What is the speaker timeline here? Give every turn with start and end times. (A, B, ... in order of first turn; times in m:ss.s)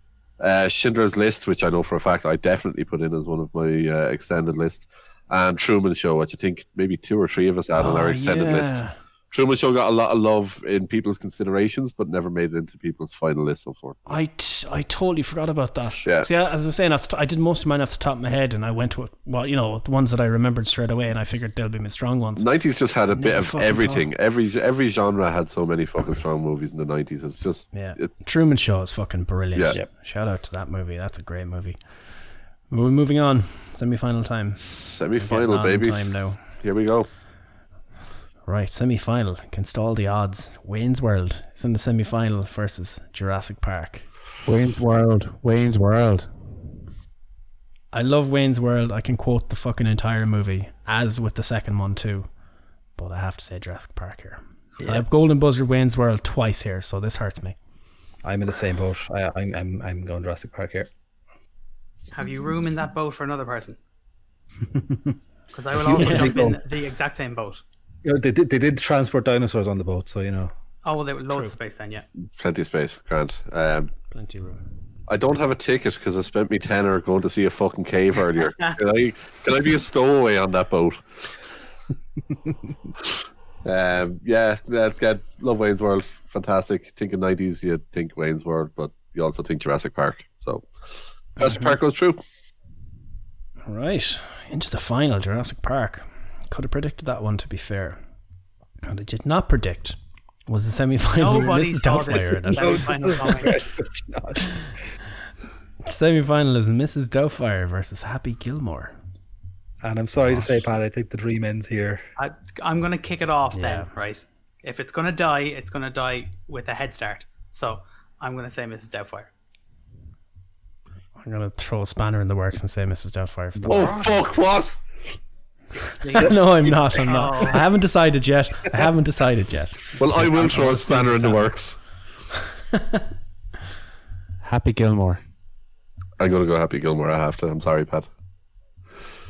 0:00.4-0:14.0 A
0:07.8-0:09.0 B
0:14.1-0:22.5 B
0:22.4-0:28.1 A
0:23.1-0:24.1 B
0:27.7-0:31.8 B
0:32.7-0:34.6 B
0:34.6-0:37.1 A
0:35.2-0:36.4 B
0:38.4-0:44.1 B
0:44.4-0:46.3 C
0:47.9-0:52.3 B
0:53.0-0:57.6 B
0:54.8-0:55.1 D
0:58.2-1:00.9 D
1:02.1-1:03.8 E
1:05.5-1:07.6 E
1:05.7-1:06.6 D
1:05.9-1:06.4 B
1:08.0-1:10.5 D
1:10.8-1:12.1 E
1:11.3-1:11.6 B
1:12.4-1:13.9 A
1:14.1-1:14.6 B
1:15.1-1:21.0 A
1:23.6-1:32.2 A
1:31.4-1:31.8 B
1:33.7-1:38.0 B
1:38.8-1:42.9 B
1:41.2-1:43.6 E
1:42.5-1:44.4 D
1:45.8-1:48.9 B
1:49.8-1:52.0 D
1:52.2-1:59.3 E
1:53.5-1:53.9 B
2:01.2-2:04.0 B
2:03.7-2:04.8 A
2:06.0-2:06.4 E
2:06.1-2:11.5 B
2:07.0-2:07.6 E
2:10.0-2:11.8 A
2:14.4-2:15.2 C
2:16.2-2:18.1 A